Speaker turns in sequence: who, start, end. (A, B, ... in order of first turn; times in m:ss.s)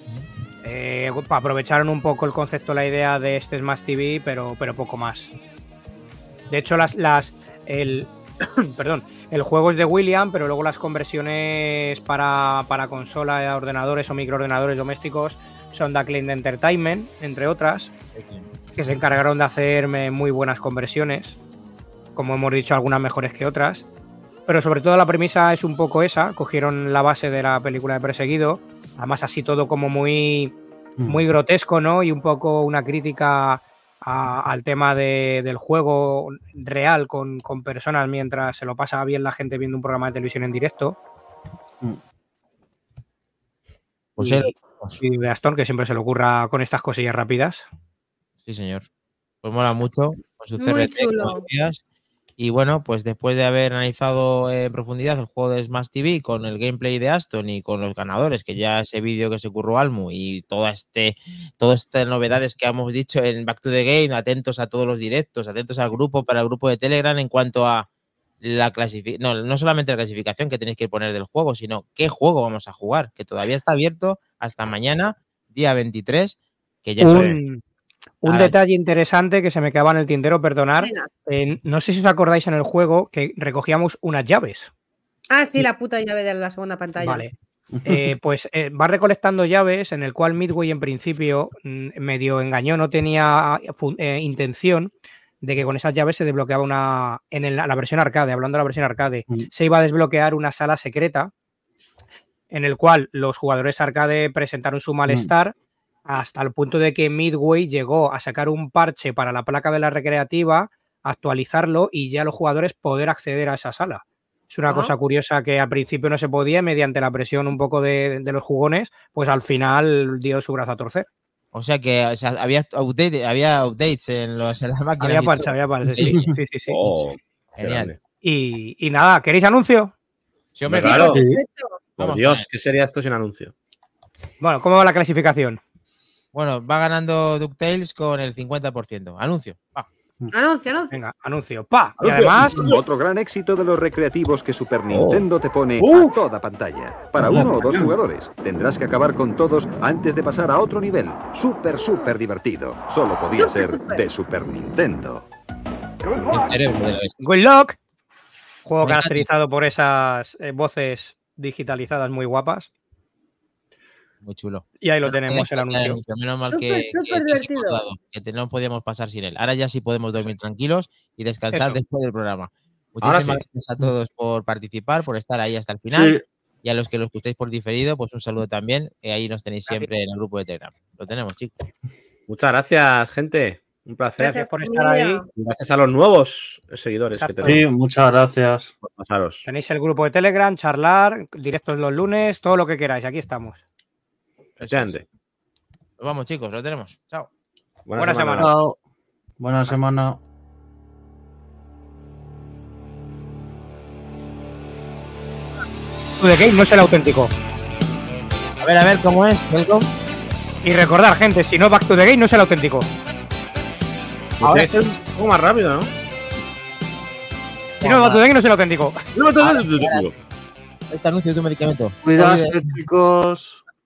0:00.6-0:05.3 A
0:06.5-0:17.9 A
0:18.2-0:18.4 B
0:18.8-0:21.4 A
0:22.2-0:23.9 A
0:24.5-0:30.5 A
0:31.1-0:41.0 A
0:44.2-0:45.0 B
0:44.2-0:47.7 A
0:48.4-0:48.9 B
0:49.4-0:51.8 B
0:50.6-0:51.4 C
0:52.4-1:07.9 B
1:08.4-1:17.4 B
1:17.0-1:17.6 A
1:17.1-1:17.4 D
1:18.2-1:24.7 A
1:18.2-1:18.5 B
1:20.8-1:21.1 C
1:25.3-1:27.3 C
1:27.0-1:27.3 A
1:27.8-1:28.1 E
1:27.8-1:34.9 A
1:35.4-1:41.3 A
1:42.5-1:45.5 A
1:46.1-2:01.1 A
1:54.7-1:54.9 C
2:01.5-2:06.2 B
2:05.0-2:06.8 A
2:06.0-2:06.3 E
2:06.7-2:08.0 D
2:07.6-2:07.9 B
2:08.2-2:09.9 A
2:10.6-2:11.2 B
2:10.7-2:11.1 D
2:10.9-2:11.8 C
2:11.1-2:11.4 E
2:12.0-2:13.5 D
2:12.0-2:12.5 B
2:14.4-2:15.6 A
2:16.3-2:19.9 B
2:20.3-2:21.0 C
2:20.9-2:22.6 A
2:22.0-2:22.8 D
2:22.6-2:35.3 F
2:24.9-2:25.2 D
2:25.8-2:26.1 D
2:27.2-2:27.9 E
2:33.3-2:34.0 C
2:36.3-2:37.2 B
2:37.2-2:37.8 A
2:38.7-2:42.7 A
2:38.8-2:39.3 B
2:44.2-3:01.7 B
2:44.8-2:46.0 A
2:46.5-2:47.8 C
2:51.5-2:51.8 A
2:53.0-2:53.4 D
2:55.9-2:56.2 E
2:59.7-2:59.9 A
3:02.3-3:04.4 D
3:04.2-3:05.3 C
3:04.5-3:05.2 A
3:05.4-3:07.6 D
3:07.2-3:07.6 A
3:07.4-3:08.7 E
3:08.8-3:09.4 D
3:09.5-3:13.6 A
3:14.6-3:15.0 D
3:14.6-3:15.0 B
3:16.0-3:17.3 B
3:17.9-3:18.5 D
3:18.0-3:18.5 A
3:18.4-3:18.8 E
3:19.4-3:20.2 E
3:26.2-3:27.3 A
3:28.6-3:29.9 B
3:30.6-3:32.9 A
3:34.4-3:35.9 D
3:34.4-3:34.8 B
3:37.8-3:38.2 B
3:37.8-3:39.0 A
3:39.2-3:40.1 D
3:39.4-3:40.2 B
3:40.9-3:42.7 B
3:42.0-3:43.6 E